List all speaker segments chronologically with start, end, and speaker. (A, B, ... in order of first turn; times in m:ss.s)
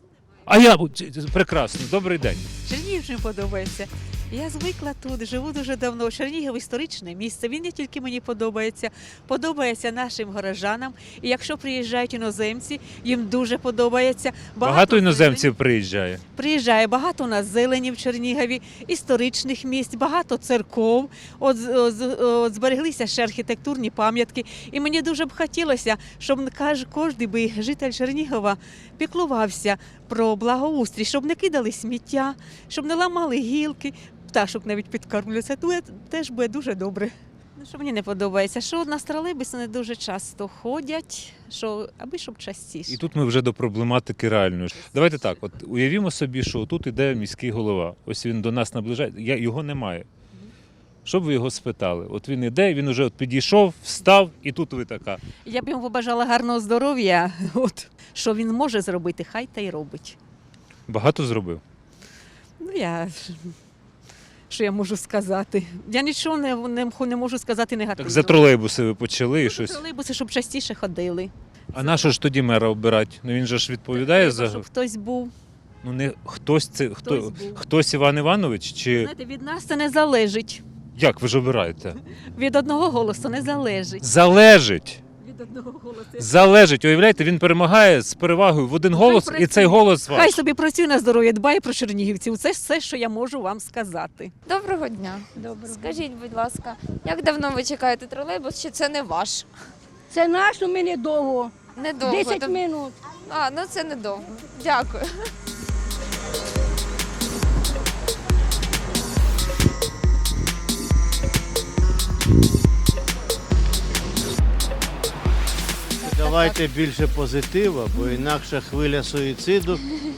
0:00.4-0:02.5 A
0:02.6-0:15.5 B
0:14.6-0:16.2 A
0:16.3-0:43.0 B
0:42.9-0:50.1 A
0:51.0-0:55.2 A
0:55.4-1:00.2 B
1:00.9-1:01.6 A
1:02.6-1:03.5 B
1:04.5-1:08.6 B
1:08.0-1:09.8 A
1:09.4-1:12.0 B
1:11.7-1:14.7 A
1:13.9-1:15.3 B
1:15.8-1:19.1 A
1:17.0-1:17.6 B
1:18.9-1:20.6 B
1:20.9-1:22.0 A
1:22.3-1:24.0 B
1:24.0-1:25.0 A
1:25.2-1:26.3 B
1:26.2-1:30.4 A
1:28.9-1:34.3 B
1:34.4-1:39.4 C
1:40.1-1:41.5 D
1:41.7-1:42.6 C
1:42.0-1:42.9 D
1:43.2-1:45.1 C
1:56.0-1:56.6 C
1:56.0-1:59.8 E